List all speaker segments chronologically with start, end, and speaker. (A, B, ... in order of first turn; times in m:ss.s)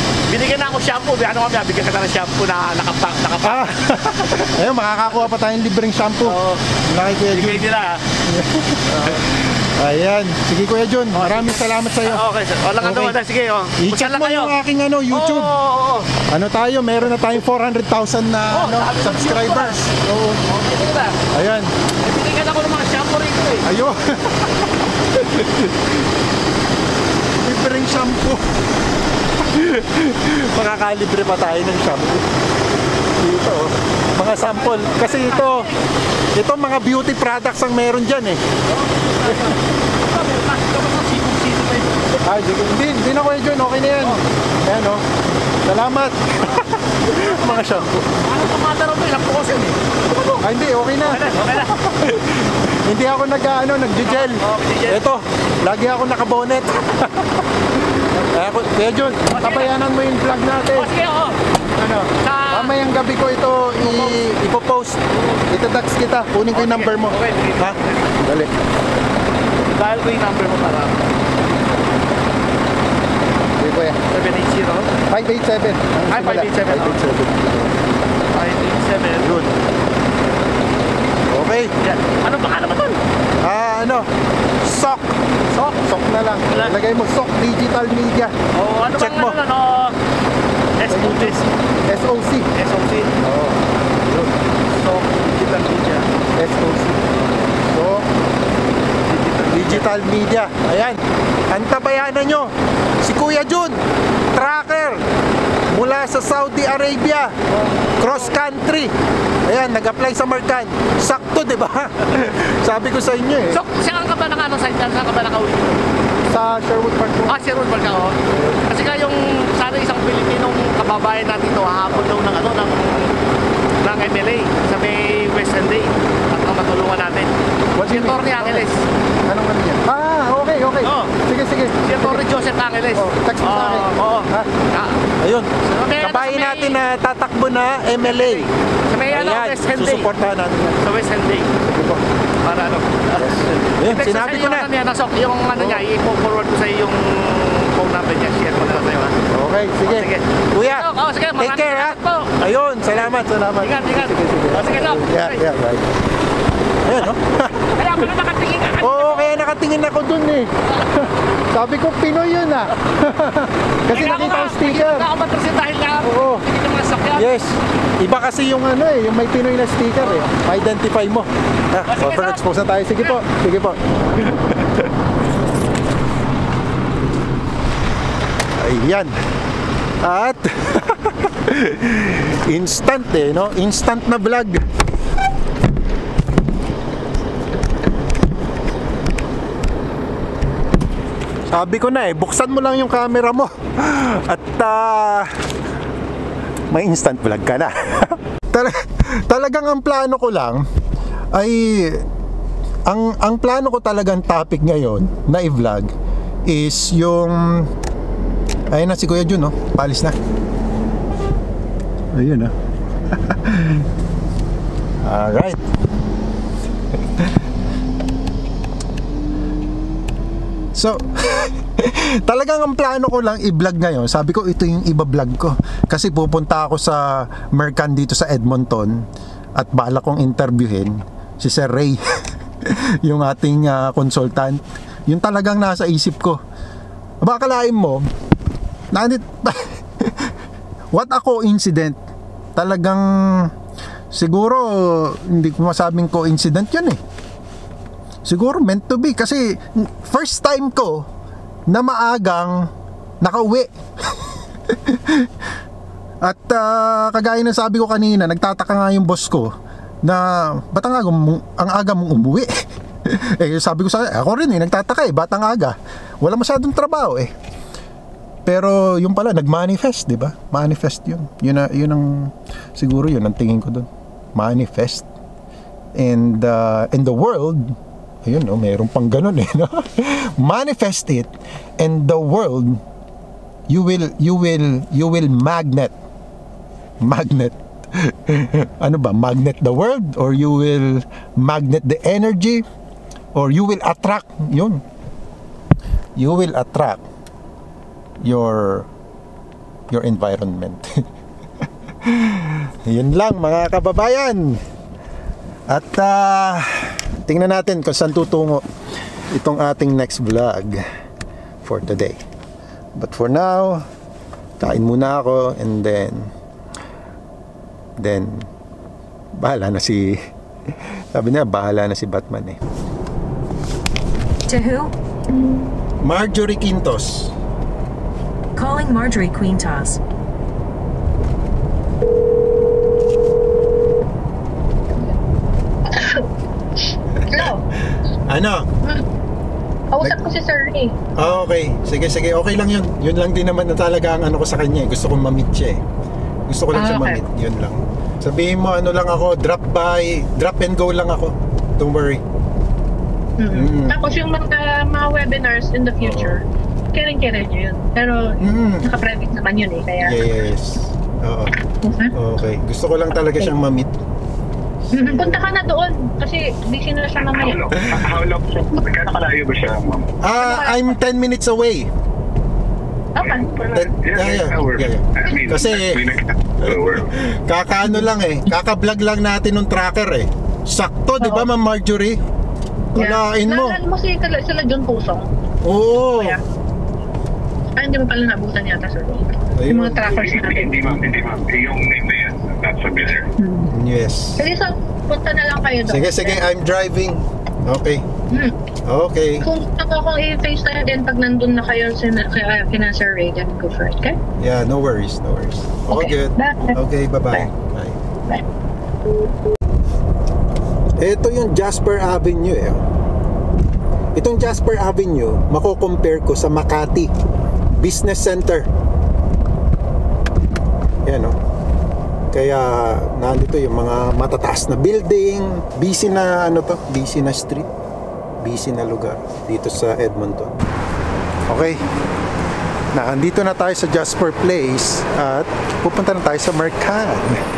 0:00.3-0:03.7 A
0:03.4-0:07.7 B
0:06.2-0:06.6 A
0:07.3-0:08.0 A
0:08.2-0:12.2 B
0:08.9-0:09.2 A
0:11.1-0:14.5 A
0:12.8-0:13.2 B
0:13.8-0:15.5 B
0:15.1-0:16.1 A
0:16.3-0:20.4 B
0:18.5-0:19.8 A
0:20.4-0:21.2 A
0:21.3-0:21.7 B
0:22.0-0:23.6 A
0:23.6-0:25.8 B
0:27.4-0:28.4 B
0:29.4-0:32.2 B
0:33.2-0:35.7 B
0:34.5-0:35.8 A
0:36.3-0:38.4 B
0:38.7-0:42.2 A
0:39.2-0:39.6 B
0:42.2-0:45.0 B
0:45.6-0:48.1 B
0:46.5-0:50.4 A
0:50.4-1:00.9 B
0:51.0-0:51.7 A
0:54.0-0:55.0 A
0:59.3-0:59.7 A
1:00.7-1:01.4 A
1:01.8-1:08.5 B
1:02.1-1:02.7 A
1:03.8-1:04.2 A
1:05.1-1:05.4 A
1:06.5-1:08.1 A
1:09.7-1:11.0 A
1:13.6-1:14.0 B
1:14.1-1:14.9 A
1:15.1-1:17.9 B
1:16.1-1:17.0 A
1:18.3-1:19.3 A
1:19.2-1:19.5 B
1:21.3-1:21.7 B
1:21.8-1:23.0 A
1:23.4-1:24.1 B
1:24.6-1:28.3 B
1:26.5-1:26.8 A
1:28.5-1:30.0 A
1:28.9-1:29.4 B
1:30.8-1:31.5 A
1:30.9-1:32.5 B
1:32.5-1:33.1 A
1:33.2-1:34.4 B
1:34.8-1:36.1 A
1:36.4-1:38.1 B
1:39.0-1:40.0 A
1:39.4-1:43.8 B
1:44.3-1:45.0 B
1:45.7-1:47.4 B
1:47.5-1:48.4 A
1:48.0-1:48.9 B
1:49.4-1:53.6 B
1:53.5-1:55.8 A
1:56.3-1:57.4 B
1:57.3-2:03.1 A
1:58.3-1:58.6 B
2:03.8-2:07.3 A
2:07.8-2:08.6 B
2:07.8-2:08.8 A
2:09.3-2:12.2 B
2:10.8-2:11.1 A
2:11.8-2:15.0 A
2:12.9-2:14.5 B
2:15.2-2:18.5 B
2:15.6-2:16.8 A
2:18.0-2:20.1 A
2:19.1-2:20.8 B
2:20.8-2:21.5 A
2:21.6-2:22.0 B
2:22.4-2:29.2 A
2:23.1-2:24.7 B
2:25.5-2:25.8 B
2:29.3-2:30.9 B
2:29.8-2:32.3 A
2:31.4-2:35.9 B
2:33.6-2:35.4 A
2:36.8-2:38.1 B
2:37.8-2:39.4 A
2:38.8-2:45.0 B
2:43.9-2:47.4 A
2:46.0-2:46.4 B
2:47.1-2:53.8 B
2:50.0-2:50.3 A
2:51.9-2:52.4 A
2:58.6-2:59.1 B
3:00.0-3:04.6 B
3:11.5-3:15.3 B
3:16.7-3:20.6 B
3:21.3-3:22.0 B
3:22.9-3:25.9 B
3:26.4-3:27.7 B
3:28.7-3:30.2 B
3:32.1-3:32.5 B
3:33.1-3:33.9 B
3:35.0-3:35.6 B
3:40.7-3:49.0 B
3:49.6-3:52.0 B
3:52.6-3:56.4 B
3:57.2-3:58.0 B
3:58.9-4:00.3 B
4:00.9-4:02.0 B
4:02.6-4:03.5 B
4:04.1-4:07.0 B
4:08.2-4:11.0 B
4:11.7-4:12.7 B
4:13.2-4:15.3 B
4:16.2-4:19.5 B
4:20.0-4:22.5 B
4:23.0-4:27.3 B
4:28.4-4:35.0 B
4:35.9-4:42.8 B
4:43.7-4:45.9 B
4:47.0-4:52.6 B
4:53.3-4:54.8 B
4:56.2-4:57.0 B
4:58.2-4:58.9 B
4:59.9-5:01.0 B
5:02.0-5:04.6 B
5:05.7-5:08.6 B
5:09.3-5:10.8 B
5:11.6-5:12.2 B
5:13.0-5:13.8 B
5:14.6-5:16.3 B
5:18.0-5:18.5 B
5:19.4-5:20.2 B
5:20.8-5:22.6 B
5:24.5-5:24.9 C
5:26.0-5:27.3 B
5:28.5-5:30.0 C
5:35.8-5:36.3 D
5:37.2-5:38.7 B
5:37.3-5:37.6 D
5:39.9-5:40.9 D
5:41.2-5:45.8 B
5:46.5-5:52.2 B
5:46.7-5:47.2 D
5:53.4-6:00.2 D
5:53.5-5:54.0 B
5:56.0-5:56.4 B
5:58.4-5:58.8 B
6:00.0-6:01.6 B
6:01.8-6:02.1 D
6:02.1-6:03.9 B
6:04.9-6:05.4 B
6:04.9-6:07.6 D
6:07.2-6:10.1 E
6:10.2-6:11.9 B
6:10.3-6:11.0 D
6:13.2-6:13.5 D
6:13.2-6:17.1 E
6:13.7-6:16.0 B
6:16.6-6:22.2 B
6:21.2-6:21.5 D
6:22.9-6:23.8 B
6:22.9-6:25.3 D
6:25.6-6:26.4 B
6:26.1-6:26.4 D
6:27.8-6:30.9 D
6:29.5-6:30.1 B
6:30.0-6:33.3 E
6:33.4-6:33.7 D
6:33.7-6:34.5 B
6:34.4-6:36.4 D
6:35.8-6:38.0 B
6:38.3-6:38.6 D
6:38.8-6:39.5 B
6:39.4-6:44.2 D
6:44.4-6:48.0 B
6:45.9-6:46.8 D
6:51.0-6:52.8 B
6:54.1-6:57.1 B
6:57.8-6:58.7 B
7:01.0-7:01.4 B
7:02.3-7:07.7 B
7:08.4-7:10.6 B
7:11.5-7:11.8 B
7:12.9-7:17.4 B